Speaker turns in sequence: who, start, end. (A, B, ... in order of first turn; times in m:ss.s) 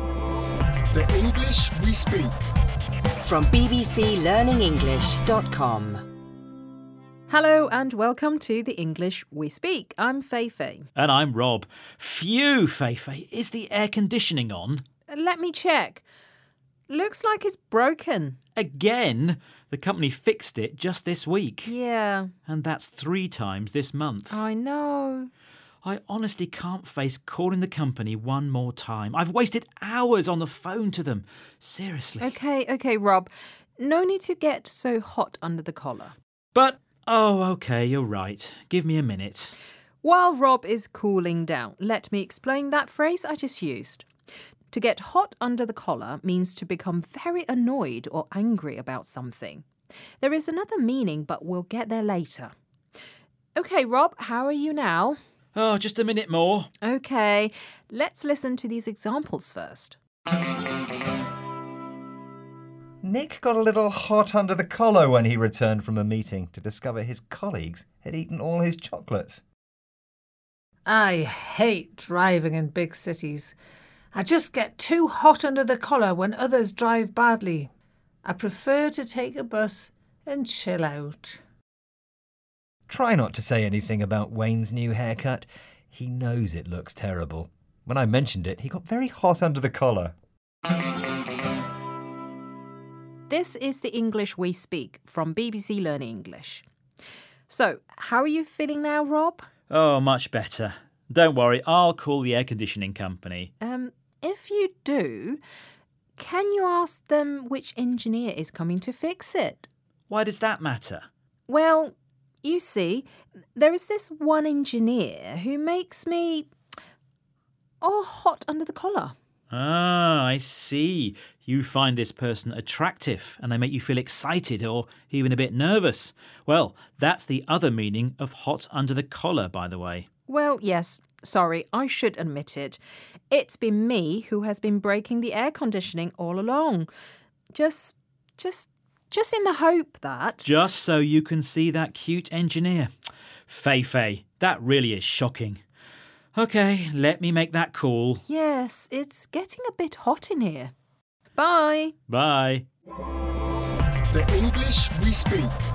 0:00.9-0:02.4 A
0:03.2-0:06.0 B
0:07.3-0:10.9 C
0:11.0-0:14.8 D
0:15.1-0:16.0 C
0:16.9-0:18.4 C
0:18.6-0:21.7 D
0:21.6-0:22.3 C
0:22.5-0:24.4 D
0:24.3-0:25.3 C
0:25.8-0:32.3 D
0:32.2-0:36.1 C
0:36.5-0:39.6 D
0:40.0-0:44.1 C
0:44.7-0:49.6 C
0:50.2-0:52.5 C
0:53.6-0:55.2 C
0:55.6-0:56.7 D
0:56.8-1:00.0 C
1:03.0-1:09.4 E
1:10.9-1:13.6 F
1:14.1-1:17.7 F
1:18.2-1:21.4 F
1:22.9-1:30.1 E
1:33.3-1:36.6 C
1:37.5-1:39.5 C
1:39.7-1:43.5 D
1:43.6-1:45.4 C
1:46.2-1:49.7 C
1:50.1-1:51.1 D
1:51.5-1:56.5 C
1:57.8-1:59.2 C
1:59.5-2:10.1 D
2:10.3-2:12.8 C
2:13.3-2:16.9 C
2:17.5-2:20.5 C
2:20.4-2:22.9 D
2:23.5-2:25.6 D
2:26.4-2:28.2 D
2:28.3-2:30.7 C
2:31.4-2:31.9 C
2:32.1-2:32.7 D
2:34.1-2:35.6 A